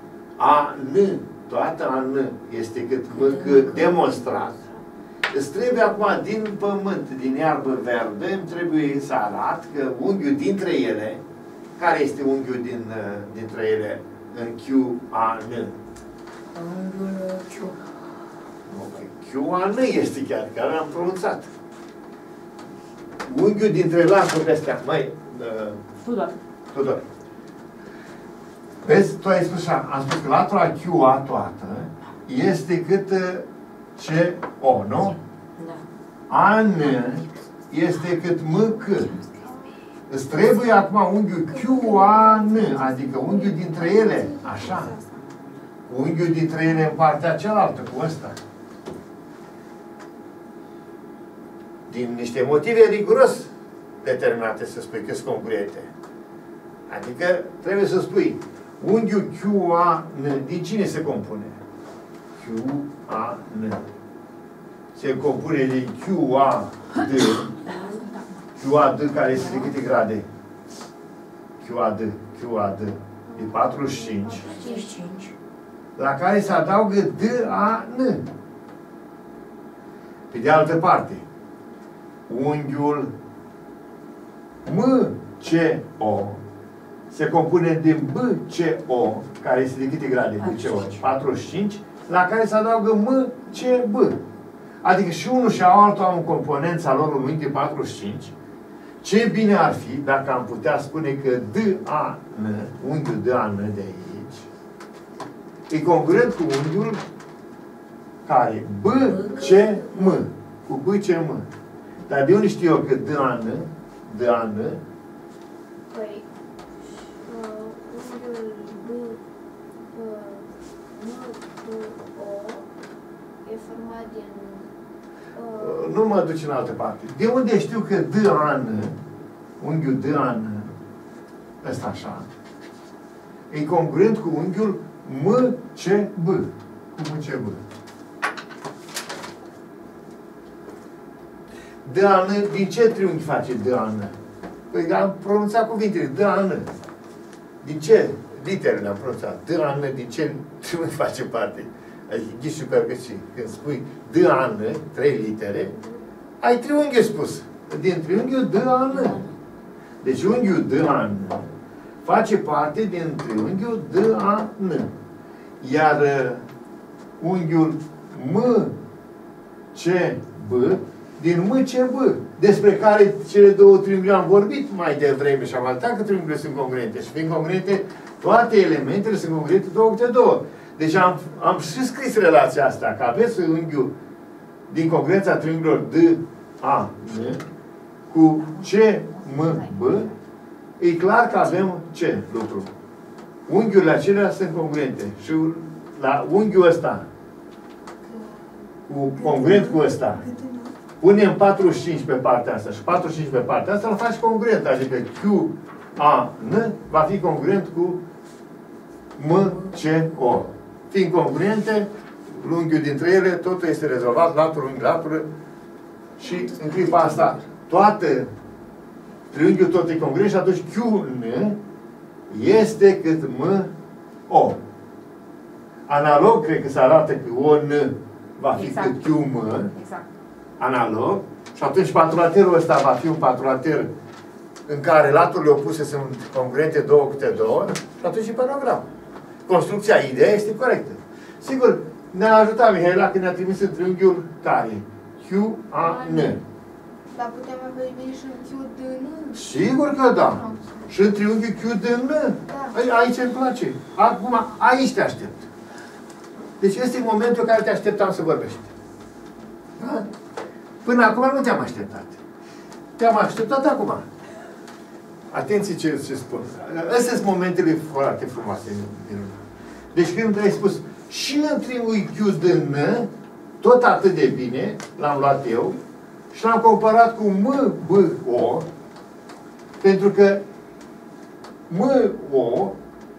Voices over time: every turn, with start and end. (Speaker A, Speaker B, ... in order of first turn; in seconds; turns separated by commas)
Speaker A: 0.4-4.6, Speaker B: 3.1-4.4, Speaker A: 5.3-11.2, Speaker A: 11.8-15.8, Speaker B: 16.5-18.0, Speaker A: 18.7-21.5, Speaker A: 23.2-25.8, Speaker C: 26.0-26.3, Speaker A: 26.7-27.0, Speaker A: 28.8-33.5, Speaker A: 34.0-35.2, Speaker A: 36.3-39.1, Speaker D: 39.4-39.7, Speaker A: 40.1-45.0, Speaker D: 41.5-45.3, Speaker A: 45.9-48.4, Speaker A: 51.9-53.5, Speaker A: 54.0-55.9, Speaker A: 56.9-61.6, Speaker A: 62.4-63.8, Speaker A: 65.0-67.5, Speaker C: 67.6-68.4, Speaker B: 67.6-68.0, Speaker A: 68.6-70.3, Speaker B: 69.3-69.7, Speaker A: 71.6-74.5, Speaker D: 73.3-74.9, Speaker B: 74.4-75.3, Speaker A: 76.0-78.2, Speaker A: 80.3-81.2, Speaker A: 82.3-83.1, Speaker A: 84.7-86.4, Speaker A: 87.1-94.2, Speaker B: 90.4-91.0, Speaker A: 94.8-98.3, Speaker A: 99.0-104.5, Speaker A: 105.7-107.0, Speaker A: 108.3-111.5, Speaker B: 109.0-110.2, Speaker A: 112.1-114.8, Speaker D: 115.9-116.2, Speaker D: 116.8-119.2, Speaker D: 119.9-122.6, Speaker D: 123.5-124.7, Speaker D: 125.3-125.9, Speaker A: 125.6-129.0, Speaker A: 129.6-130.7, Speaker A: 131.6-132.3, Speaker A: 133.5-137.6, Speaker A: 141.8-144.1, Speaker A: 144.7-146.7, Speaker A: 147.6-155.7, Speaker A: 156.4-159.2, Speaker B: 158.9-159.3, Speaker A: 160.0-161.5, Speaker A: 162.0-164.9, Speaker A: 165.6-166.5, Speaker A: 167.2-168.7, Speaker A: 169.7-183.9, Speaker A: 184.7-187.4, Speaker A: 188.1-190.1, Speaker C: 188.4-190.2, Speaker A: 190.8-192.7, Speaker A: 193.5-197.1, Speaker D: 198.1-198.4, Speaker A: 198.9-200.2, Speaker D: 199.2-200.7, Speaker A: 201.0-208.0, Speaker A: 209.2-215.3, Speaker A: 216.2-218.3, Speaker B: 216.2-217.4, Speaker A: 219.3-221.6, Speaker A: 222.3-223.7, Speaker A: 224.3-224.6, Speaker A: 225.9-229.7, Speaker C: 228.6-229.1, Speaker C: 229.7-230.1, Speaker A: 230.6-233.9, Speaker A: 234.7-238.9, Speaker A: 239.5-246.4, Speaker C: 245.8-246.4, Speaker D: 247.1-249.4, Speaker A: 249.3-255.5, Speaker D: 250.2-250.9, Speaker D: 252.5-252.8, Speaker A: 256.6-258.7, Speaker A: 259.8-260.1, Speaker A: 260.8-262.2, Speaker A: 263.0-264.1, Speaker A: 265.3-269.4, Speaker A: 269.9-273.1, Speaker A: 273.6-275.8, Speaker A: 276.3-278.7, Speaker A: 279.8-280.4, Speaker A: 281.7-282.8